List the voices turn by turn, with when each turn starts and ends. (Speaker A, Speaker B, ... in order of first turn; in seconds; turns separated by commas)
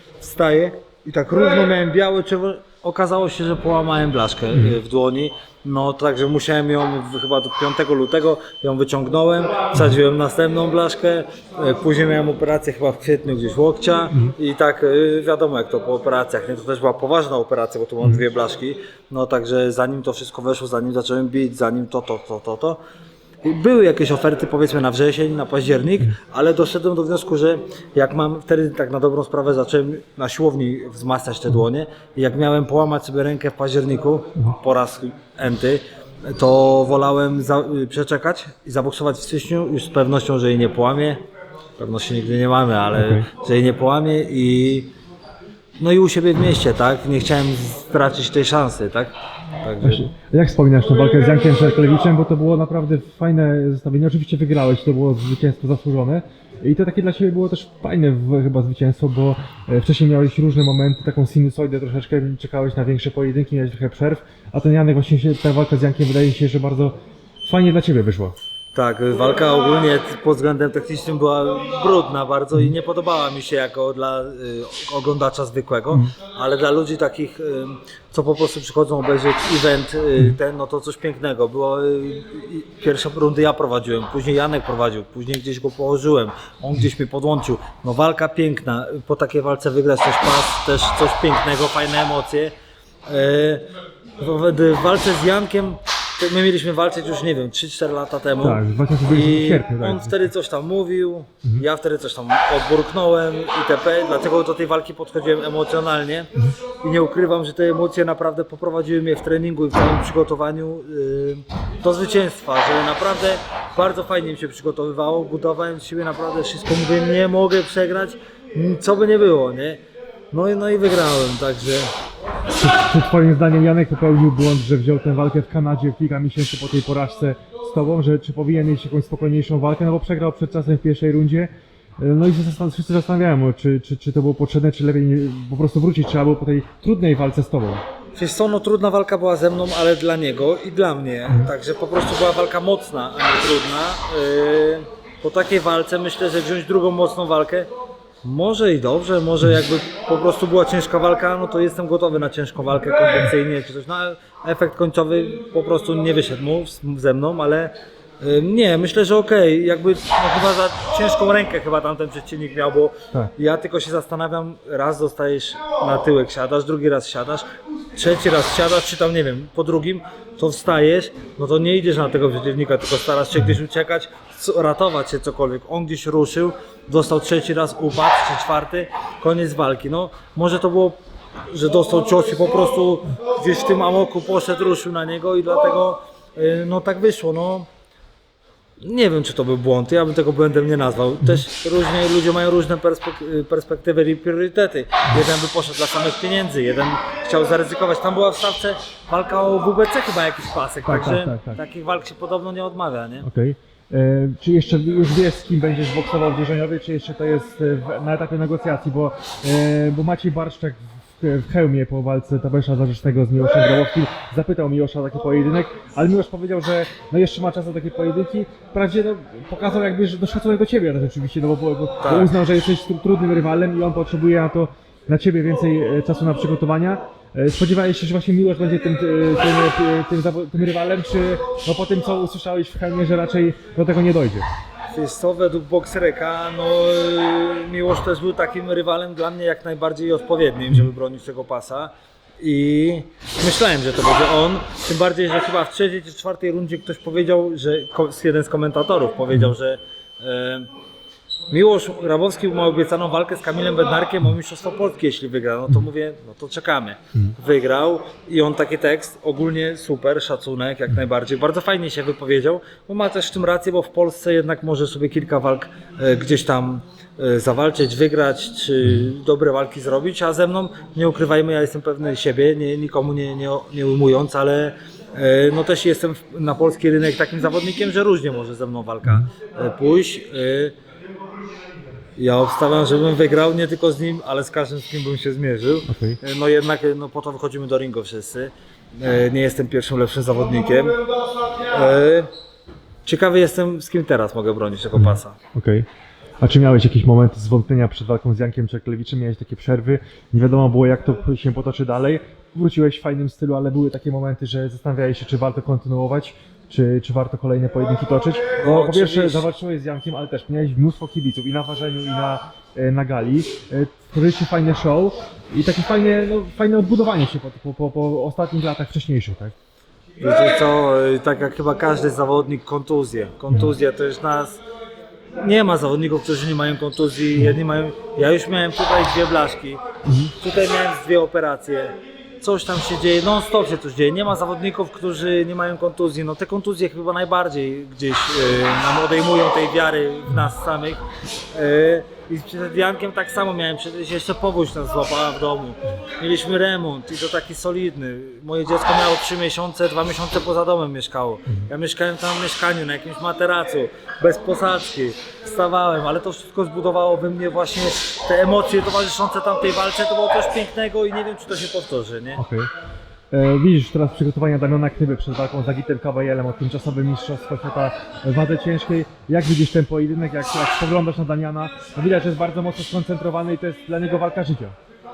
Speaker A: 0.2-22.8, Speaker A: 23.4-41.2, Speaker A: 41.8-44.9, Speaker B: 42.9-43.3, Speaker A: 45.8-50.0, Speaker B: 49.8-68.3, Speaker A: 68.7-92.5, Speaker A: 93.1-93.7, Speaker A: 94.2-119.8, Speaker B: 98.4-100.2, Speaker A: 120.3-121.9, Speaker B: 122.5-137.8, Speaker A: 138.2-147.7, Speaker A: 148.2-181.0, Speaker A: 181.5-187.7, Speaker A: 188.8-203.2, Speaker B: 200.8-201.6, Speaker B: 203.2-234.4, Speaker A: 222.0-222.3, Speaker A: 234.9-250.7, Speaker A: 251.5-280.7, Speaker A: 282.2-291.0, Speaker B: 285.9-286.2, Speaker A: 291.5-292.3, Speaker A: 293.1-295.4, Speaker B: 295.0-295.9, Speaker B: 296.4-319.5, Speaker A: 308.6-309.4, Speaker A: 320.2-324.6, Speaker A: 325.4-329.8, Speaker B: 330.0-330.3, Speaker A: 330.4-362.4, Speaker B: 362.4-362.7, Speaker B: 363.3-374.7